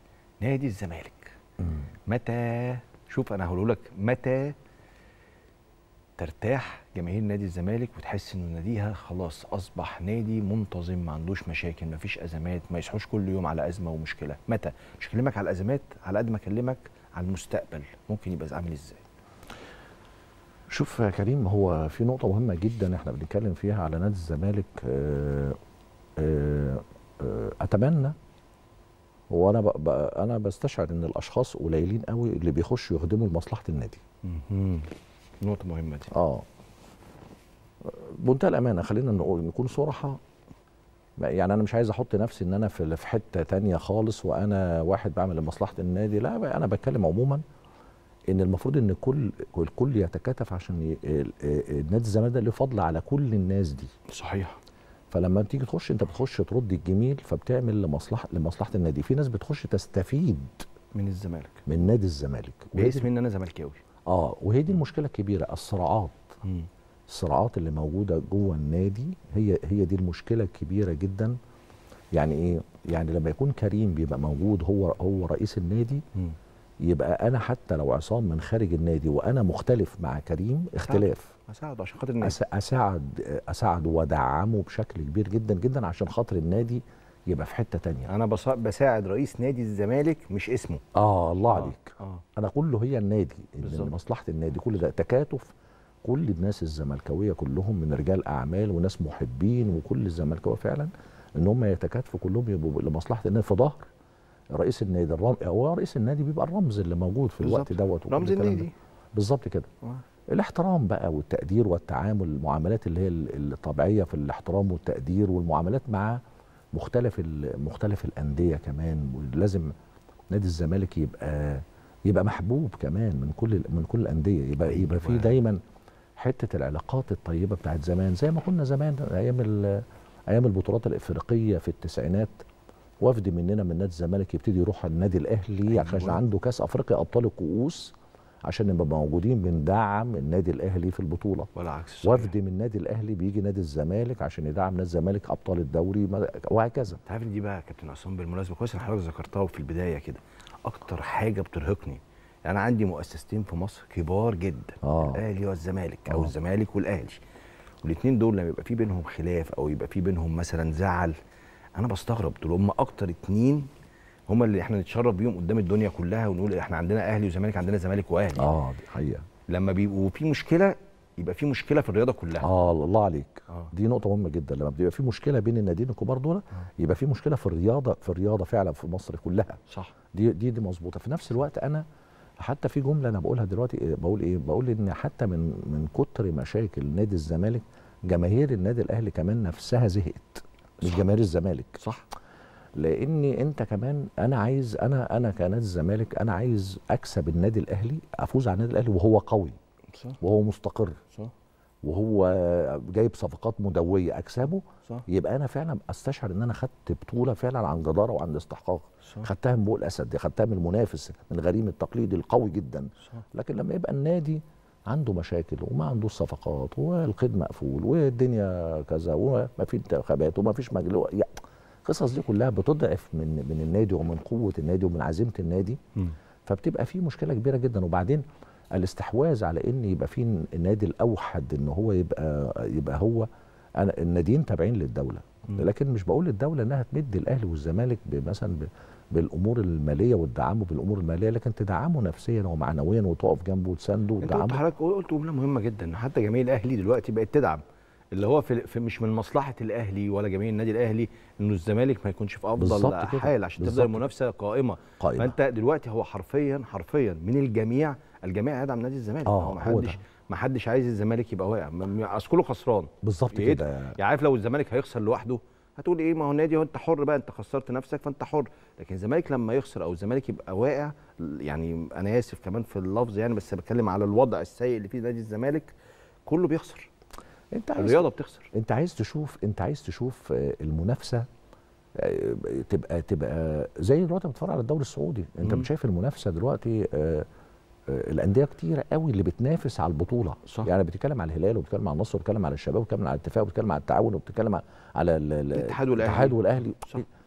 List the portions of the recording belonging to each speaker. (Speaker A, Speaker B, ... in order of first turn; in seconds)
Speaker A: 0.4-1.3, 2.1-4.5, 6.2-19.0, 34.2-36.1, 54.1-54.6, 60.9-61.6, 62.7-63.8, 66.4-66.7, 80.8-82.4, 88.1-90.8, 91.5-92.2, 93.6-93.9, 107.4-108.7, 124.6-125.3, 135.7-136.2, 141.5-142.3, 147.0-157.2, 157.8-161.1, 161.8-163.7, 164.3-168.5, 169.5-172.5, 191.8-192.0, 244.2-247.6, 248.1-275.7, 276.2-276.9, 277.8-278.5, 285.4-285.7, 295.5-297.0
Speaker B: 1.6-1.9, 20.7-25.6, 26.2-28.1, 29.3-34.0, 36.1-36.5, 37.8-40.2, 41.2-47.4, 48.3-53.9, 55.1-60.6, 61.7-63.1, 64.0-66.4, 67.1-71.4, 72.1-76.0, 76.8-81.3, 82.2-88.1, 90.9-95.5, 96.0-103.8, 104.5-109.7, 110.3-116.2, 116.7-119.7, 120.3-125.6, 126.2-132.3, 133.0-137.9, 138.4-141.5, 142.0-147.0, 154.8-155.2, 168.4-169.2, 172.4-179.6, 180.1-181.8, 182.4-191.8, 192.8-199.6, 200.2-201.0, 201.8-225.8, 226.4-244.6, 252.6-254.1, 255.0-255.3, 259.2-260.0, 263.0-264.0, 277.5-281.2, 281.9-287.2, 287.9-297.1